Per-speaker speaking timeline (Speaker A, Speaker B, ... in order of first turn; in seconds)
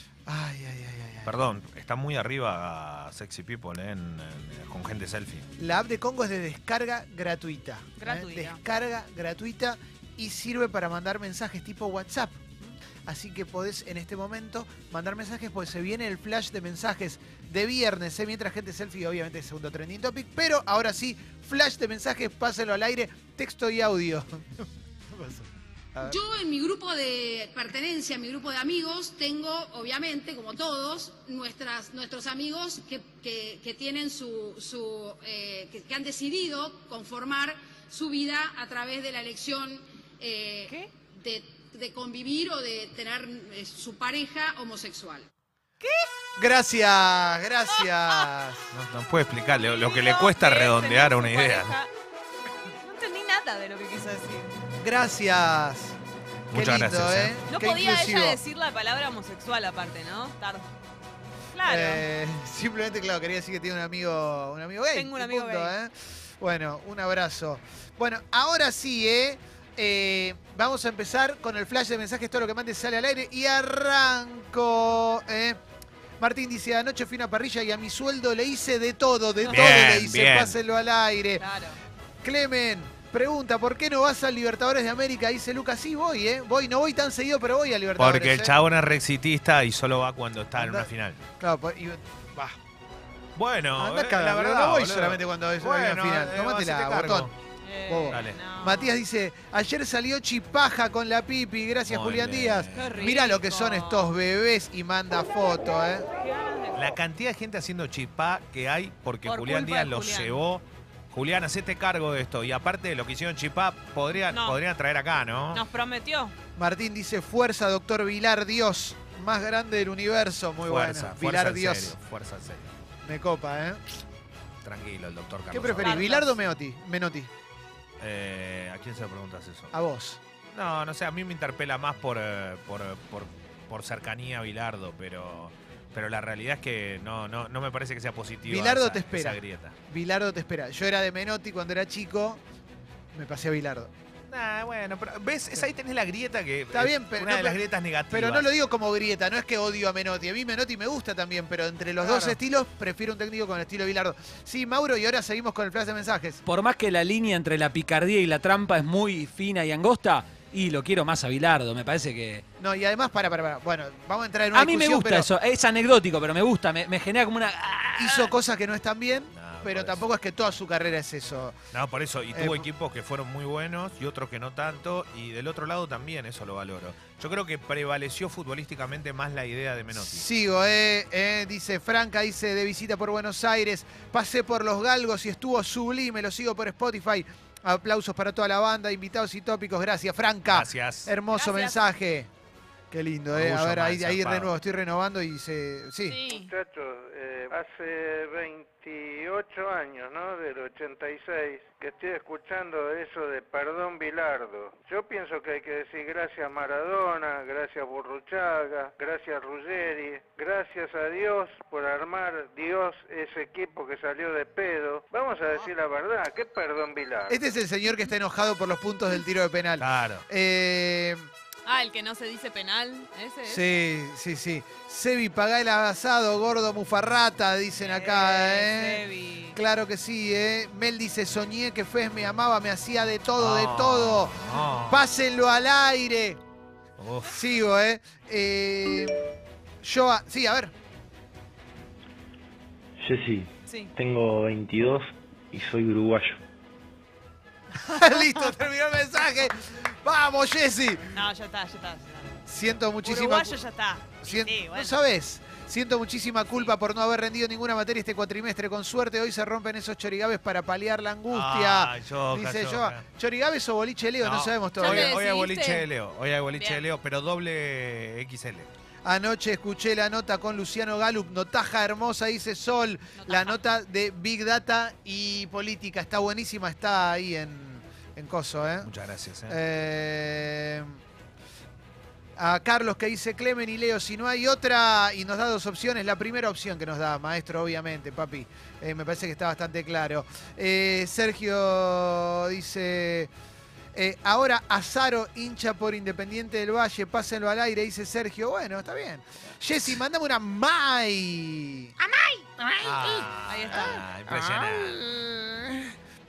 Speaker A: 0.3-1.4, 5.6-26.2, 46.4-48.7, 54.8-56.0, 56.5-58.4, 61.6-75.6, 76.2-81.5, 82.2-88.5, 90.5-92.6, 93.8-97.3, 97.9-106.1, 116.6-122.0, 123.0-123.8, 125.5-127.3, 129.7-130.2, 138.4-142.4, 143.1-143.9, 146.7-156.4, 162.6-165.3, 168.0-171.6, 172.3-172.7, 179.9-192.3, 192.9-196.2, 217.3-221.3, 223.5-236.4, 237.2-239.2, 239.8-240.7, 247.8-251.2, 252.5-253.6, 254.2-265.2, 269.0-278.9, 279.5-281.0, 282.4-293.3, 293.9-302.0, 302.9-303.2, 304.3-305.9
Speaker B: 1.2-5.5, 48.7-51.7, 56.5-57.4, 79.5-80.6, 88.0-91.2, 93.4-97.3, 98.1-98.4, 101.9-102.9, 106.8-115.6, 120.6-122.7, 124.6-126.0, 128.0-129.7, 130.5-139.8, 144.3-148.5, 152.0-152.4, 169.4-170.1, 171.7-180.3, 190.5-191.1, 193.3-194.5, 219.8-220.3, 233.4-235.1, 237.0-237.4, 261.3-263.0, 264.2-268.7, 278.8-279.6, 302.8-305.0
Speaker C: 8.0-8.6, 45.8-46.1, 49.5-51.9, 52.6-54.6, 57.5-60.7, 61.5-62.0, 64.9-65.8, 79.4-79.7, 81.4-81.8, 97.6-99.0, 102.7-104.1, 106.2-106.8, 109.2-110.4, 114.3-114.6, 115.5-116.3, 125.8-126.3, 191.3-191.8, 196.1-196.5, 221.7-223.7, 227.8-229.6, 243.7-243.9, 251.1-252.3, 253.0-255.0, 264.8-265.9, 266.6-266.8, 273.2-273.6, 303.5-304.0
Speaker D: 26.0-45.3
Speaker E: 156.5-162.4, 164.5-168.3
Speaker F: 196.3-217.4
Speaker G: 243.0-246.4